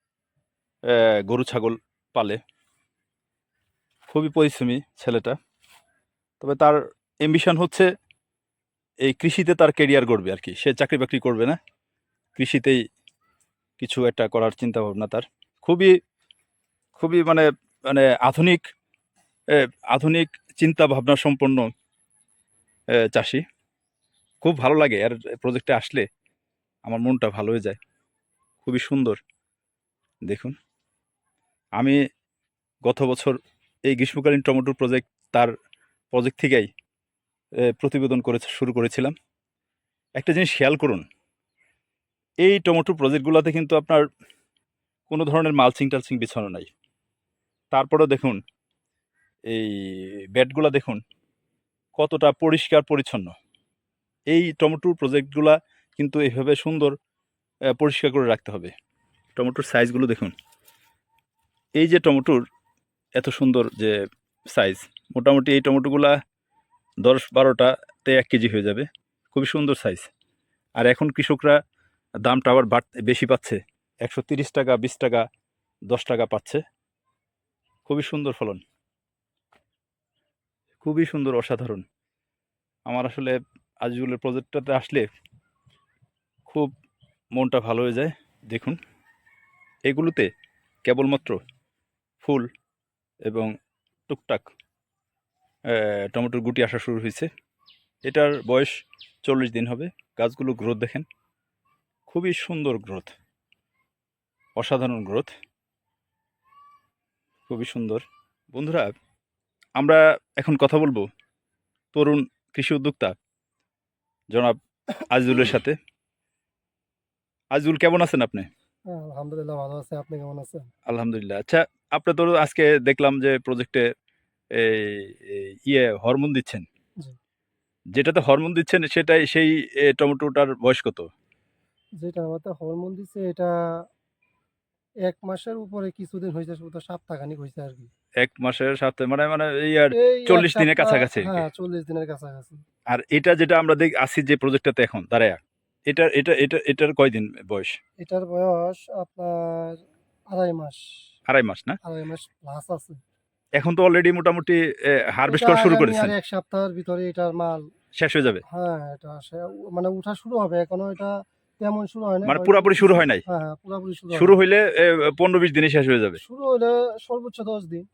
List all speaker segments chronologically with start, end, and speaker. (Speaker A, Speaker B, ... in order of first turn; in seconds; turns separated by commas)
Speaker A: 0.9-2.4, Speaker A: 4.1-5.3, Speaker A: 6.4-7.9, Speaker A: 9.0-11.6, Speaker A: 12.3-12.8, Speaker A: 13.8-15.9, Speaker A: 16.9-18.6, Speaker A: 19.5-21.7, Speaker A: 22.9-23.4, Speaker A: 24.4-26.1, Speaker A: 26.8-27.8, Speaker A: 28.6-29.2, Speaker A: 30.3-30.5, Speaker A: 32.8-33.4, Speaker A: 33.9-35.5, Speaker A: 36.1-36.7, Speaker A: 37.6-39.1, Speaker A: 40.2-41.0, Speaker A: 42.4-44.0, Speaker A: 45.1-46.7, Speaker A: 47.7-48.4, Speaker A: 49.5-51.0, Speaker A: 52.0-53.3, Speaker A: 54.3-56.9, Speaker A: 57.7-58.7, Speaker A: 59.4-60.3, Speaker A: 61.8-62.4, Speaker A: 63.1-64.0, Speaker A: 64.5-66.2, Speaker A: 67.0-70.1, Speaker A: 70.8-71.5, Speaker A: 72.2-75.2, Speaker A: 75.9-76.6, Speaker A: 77.8-78.6, Speaker A: 80.8-81.8, Speaker A: 82.9-85.0, Speaker A: 87.3-88.8, Speaker A: 89.8-90.3, Speaker A: 90.8-91.4, Speaker A: 92.2-92.5, Speaker A: 93.2-93.5, Speaker A: 94.1-94.5, Speaker A: 95.7-97.3, Speaker A: 98.0-101.0, Speaker A: 102.1-103.1, Speaker A: 104.5-105.3, Speaker A: 107.5-108.9, Speaker A: 109.8-111.1, Speaker A: 111.9-113.1, Speaker A: 114.3-114.6, Speaker A: 115.1-115.8, Speaker A: 117.5-118.5, Speaker B: 118.9-120.7, Speaker A: 120.9-123.9, Speaker A: 124.5-126.6, Speaker A: 127.9-131.1, Speaker B: 132.0-133.8, Speaker B: 135.0-137.9, Speaker A: 138.2-141.4, Speaker B: 139.9-142.6, Speaker A: 142.9-147.8, Speaker B: 148.0-150.8, Speaker A: 151.3-151.8, Speaker B: 151.8-153.0, Speaker A: 153.6-156.1, Speaker B: 155.3-157.6, Speaker A: 157.9-158.4, Speaker B: 158.5-164.4, Speaker A: 162.2-163.2, Speaker A: 164.1-166.2, Speaker B: 166.2-167.8